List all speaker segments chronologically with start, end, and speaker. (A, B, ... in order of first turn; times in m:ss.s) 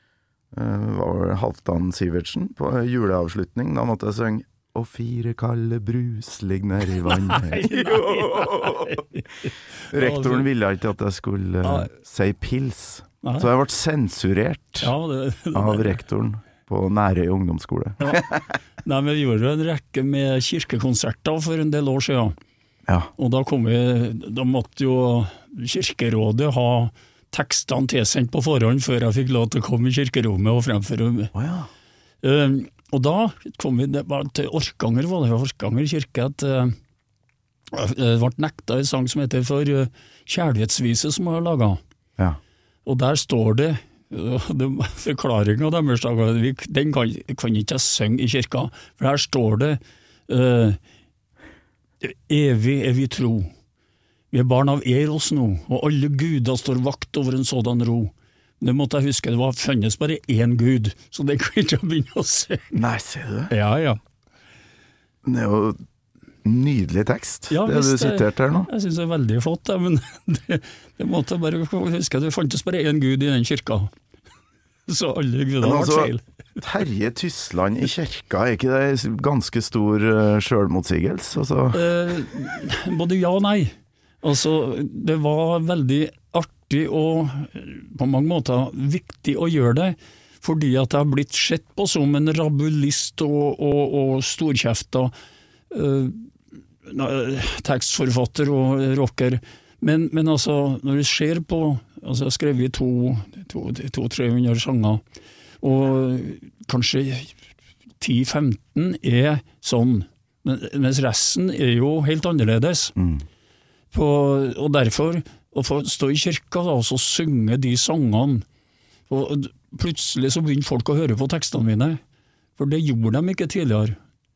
0:00.5-0:09.0 A
0:07.0-0:10.5 B
0:09.9-0:14.9 A
0:11.6-0:11.9 B
0:13.2-0:13.5 B
0:14.8-0:16.0 B
0:15.5-0:18.4 A
0:18.0-0:18.3 B
0:18.8-0:22.3 B
0:23.2-0:31.3 B
0:31.3-0:31.7 A
0:32.2-0:36.8 B
0:37.7-0:41.8 B
0:42.8-0:50.8 B
0:52.0-0:53.5 B
0:54.3-1:02.8 B
1:02.7-1:03.5 A
1:03.5-1:04.0 B
1:05.2-1:05.8 A
1:06.4-1:08.7 A
1:07.5-1:13.9 B
1:14.9-1:16.2 B
1:15.6-1:21.8 A
1:21.7-1:35.1 B
1:35.7-1:36.3 B
1:36.8-1:45.0 B
1:45.6-1:47.4 B
1:48.0-1:52.9 B
1:53.0-1:53.2 A
1:53.9-1:58.4 B
1:59.1-2:02.0 B
2:02.6-2:04.0 B